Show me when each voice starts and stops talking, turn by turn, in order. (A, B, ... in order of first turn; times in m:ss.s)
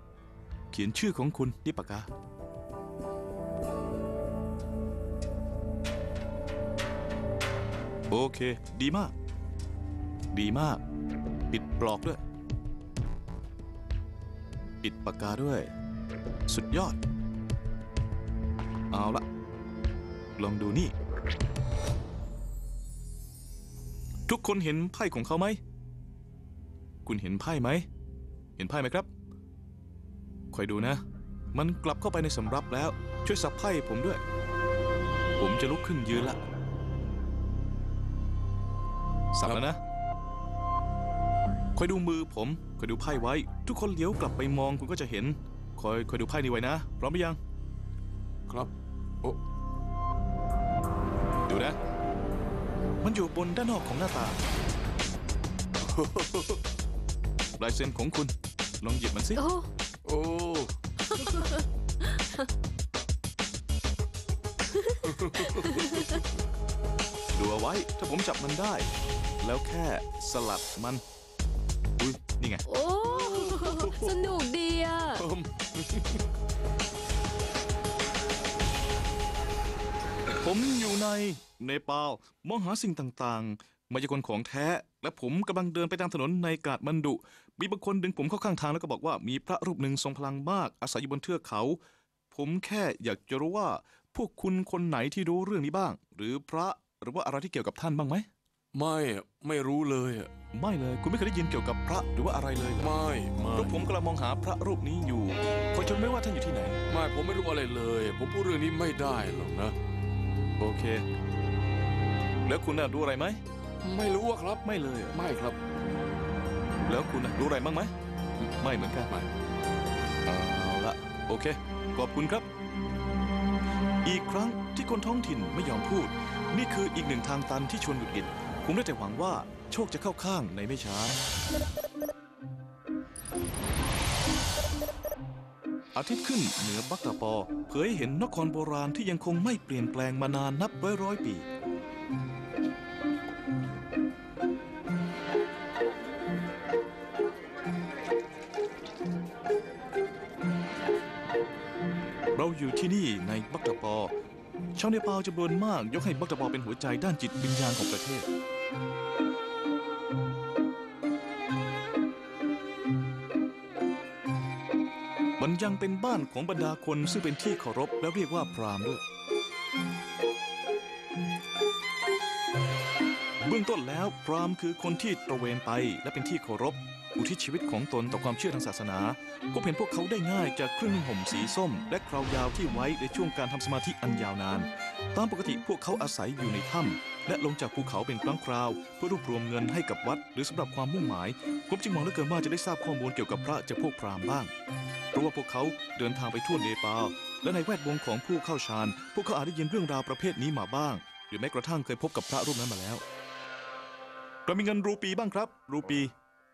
0:00.7-0:02.1 A
0:08.1-0:09.1 A
0:10.3-0:10.8 A
0:11.5-0:12.2 A
0:14.8-0:15.7 A
0:16.5-0:17.0 A
0:18.9-0:19.2 A
0:20.4-0:20.9 A
0:24.3-0:25.6 A
0:27.0-0:27.8 A
0:28.6-0:29.1 A
0:30.5-0:31.0 A
0:31.5-0:34.2 A
0:35.4-0:36.4 A
0:39.3-0:39.8 A
0:41.8-0:47.4 A
0:48.5-0:49.4 B
0:51.5-0:51.8 A
0:53.0-0:54.4 A
0:55.8-0:56.6 B
0:57.6-0:59.4 A
0:59.4-0:59.7 C
1:00.0-1:01.5 B
1:05.0-1:06.2 B
1:07.3-1:08.9 A
1:09.4-1:11.0 A
1:12.0-1:12.6 A
1:12.7-1:15.2 C
1:13.0-1:14.4 B
1:15.1-1:16.2 B
1:20.4-1:31.8 A
1:32.3-1:38.3 A
1:38.7-1:40.3 B
1:40.5-1:42.9 A
1:42.8-1:43.8 B
1:43.5-1:46.8 A
1:46.9-1:49.7 B
1:50.6-1:51.0 A
1:52.4-1:53.4 A
1:53.8-1:55.6 B
1:54.6-1:55.2 A
1:56.9-1:57.9 A
1:58.6-1:59.1 A
2:00.2-2:02.5 A
2:04.0-2:11.2 A
2:15.9-2:21.4 A
2:32.3-2:34.1 A
2:34.8-2:38.3 A
2:45.4-2:49.0 A
2:53.4-3:14.5 A
3:15.1-3:23.0 A
3:24.4-3:26.1 A